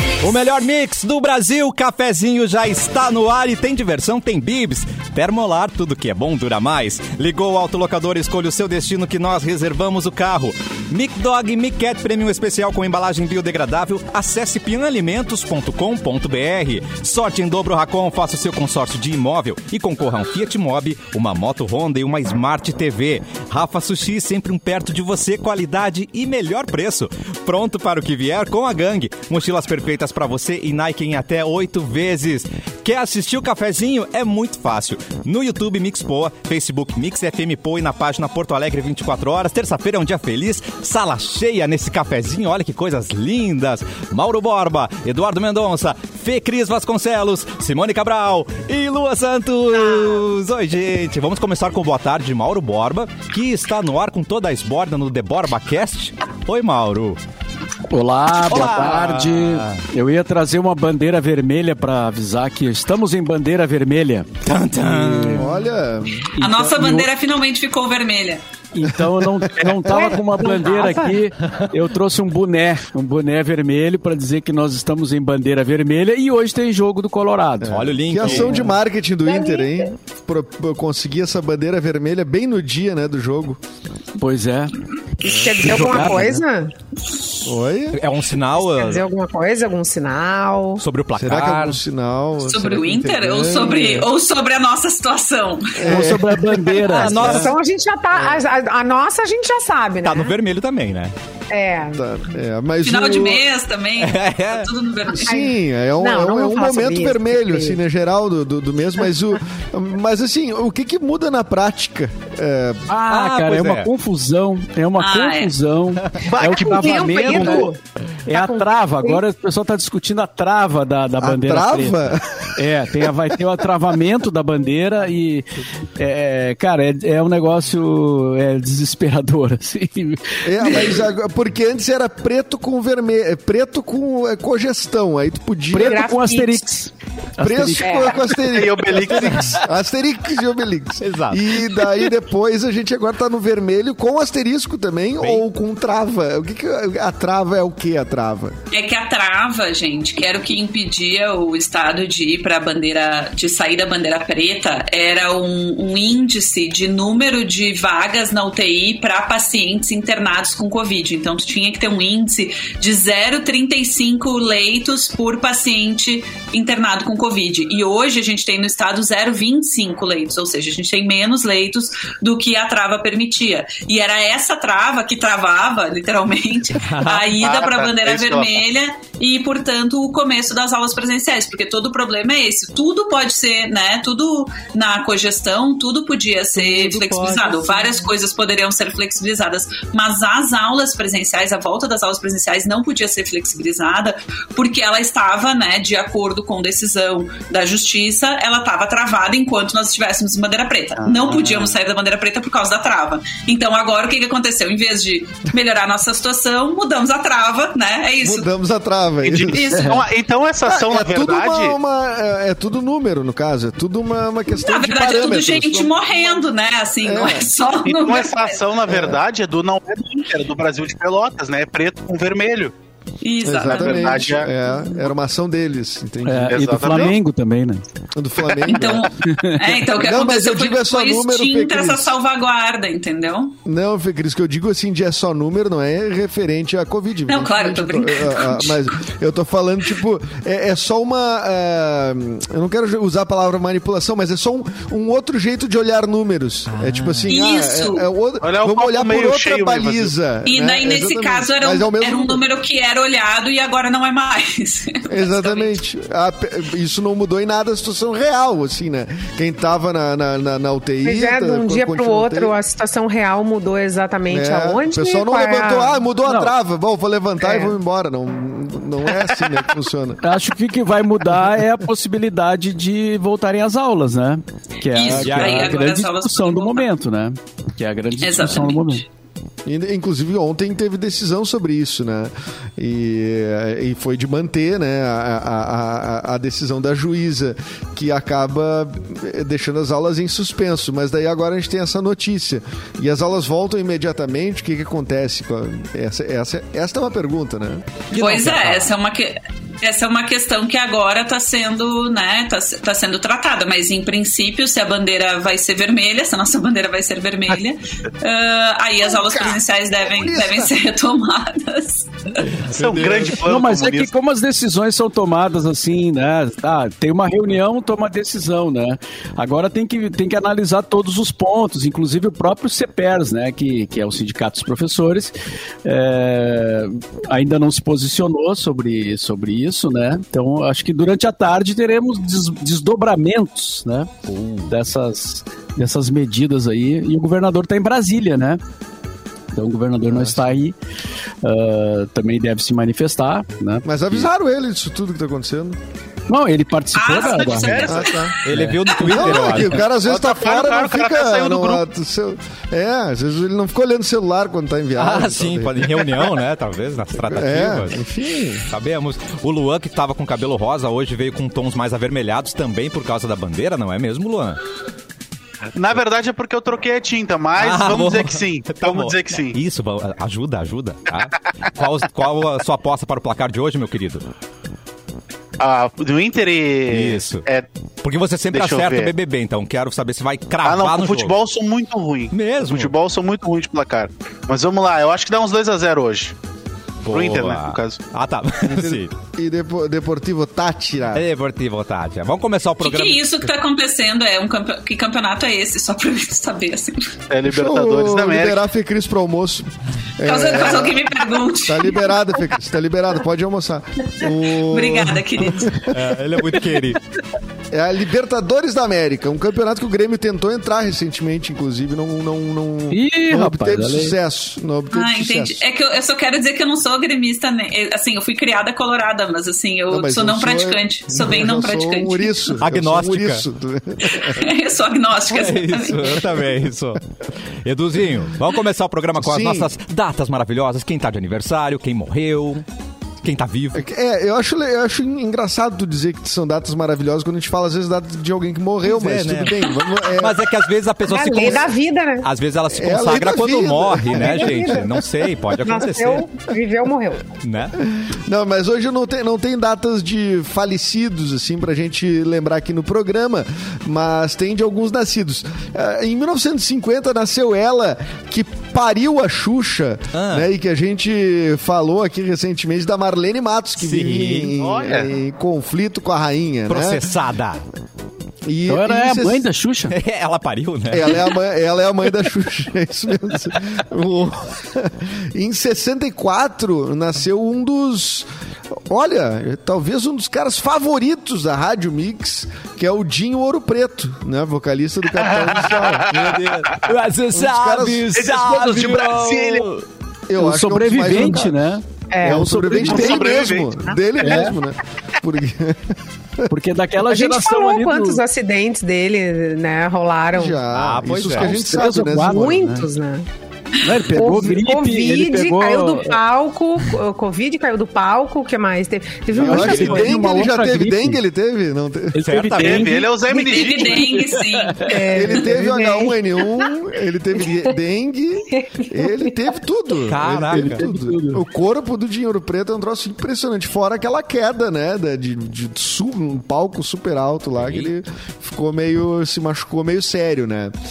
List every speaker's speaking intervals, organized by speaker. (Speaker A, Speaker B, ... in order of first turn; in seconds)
Speaker A: 0.2-57.2, 58.5-59.8, 64.4-65.5, 77.7-78.6, 87.9-89.1, 90.8-91.8, 96.9-97.5, 100.0-101.1, 104.0-104.7, 113.1-113.9, 141.0-141.5, 145.2-145.4, 176.7-177.4, 246.7-247.3, 275.1-275.8, 298.1-298.9, 312.6-313.2, 334.3-334.7, 348.4-349.9, 355.0-358.0, 358.7-364.6, 367.6-374.2, 376.9-377.4, 378.0-381.3, 382.3-382.9, 387.0-389.1, 391.1-393.2, 405.9-407.0, 422.6-423.4, 425.3-427.0, 427.6-432.6, 433.2-433.9, 438.9-441.7, 442.2-446.3, 447.4-447.8, 460.1-460.5, 463.8-464.5, 466.7-467.6, 469.9-471.2, 486.1-486.8, 488.1-489.6, 500.7-501.6, 512.2-513.1, 520.0-520.8, 527.6-527.9
Speaker B: 57.9-65.6, 66.3-67.1, 68.7-78.7, 84.2-84.7, 85.2-86.4, 95.8-97.5, 112.9-117.7, 118.3-122.0, 122.5-131.0, 135.7-138.5, 139.2-139.6, 187.1-187.8, 209.7-210.0, 226.2-227.8, 229.2-229.7, 266.2-266.5, 270.2-279.0, 313.3-325.3, 325.8-334.1, 334.7-338.6, 339.5-340.7, 341.4-344.3, 346.3-347.9, 348.5-349.0, 412.9-414.1, 468.7-469.9, 486.8-489.7, 490.4-493.2, 494.2-494.5, 496.5-498.2, 501.3-502.8, 503.8-506.2, 509.4-511.2, 512.1-514.9, 520.5-521.4
Speaker C: 65.3-66.3, 69.4-69.9, 77.6-83.6, 85.3-86.1, 87.4-88.0, 91.1-94.1, 95.8-96.8, 98.1-98.4, 101.9-103.4, 105.2-112.9, 121.2-122.6, 130.4-136.1, 137.4-148.5, 208.2-209.8, 210.7-216.4, 217.0-217.5, 218.9-219.2, 223.4-226.7, 228.1-229.1, 229.9-232.1, 233.6-252.4, 255.1-262.6, 264.3-270.2, 279.6-298.0, 309.0-310.7, 312.7-313.3, 340.1-340.4, 343.8-345.8, 347.9-348.4, 349.0-356.3, 357.2-358.7, 388.7-391.2, 397.5-406.0, 407.7-415.6, 419.9-424.4, 429.2-429.7, 433.7-440.5, 442.7-445.0, 448.0-467.1, 468.4-469.5, 470.9-478.3, 478.9-486.7, 487.3-489.1, 490.3-491.7, 492.2-496.5, 500.3-502.8, 509.3-512.2, 515.1-530.7
Speaker D: 66.4-68.4, 92.4-95.9, 102.8-105.4, 115.0-115.5, 148.7-208.5, 209.4-209.8, 214.5-218.6, 223.2-224.3, 228.6-233.6, 237.3-238.8, 247.3-248.1, 250.4-255.7, 274.9-276.9, 278.2-279.0, 298.1-312.5, 346.9-348.4, 392.8-397.1, 400.2-402.2, 404.6-405.8, 414.9-422.6, 424.1-426.3, 513.3-515.0
Speaker E: 69.8-71.2, 79.2-79.9, 85.2-86.7, 88.6-90.8, 96.9-100.4, 101.5-102.0, 105.2-107.8, 116.2-119.2, 135.8-136.7, 137.8-138.2, 261.0-266.0, 267.4-267.8, 441.0-442.3, 444.1-444.8, 445.6-447.3, 492.1-492.6, 497.1-500.6, 501.9-503.2, 504.1-510.2, 514.9-516.7, 518.5-519.4
Speaker F: 116.8-117.0, 138.4-139.5, 177.4-178.6, 201.0-201.7, 209.2-211.7, 217.8-222.7, 223.6-224.5, 226.5-227.2, 248.4-250.1, 312.7-314.1, 347.2-348.1, 350.0-351.8, 365.7-369.6, 375.6-377.7, 378.5-379.1, 380.6-386.3, 387.1-388.0, 397.3-398.6, 464.5-465.1, 485.3-486.0, 488.3-489.3, 492.8-493.9, 512.6-514.1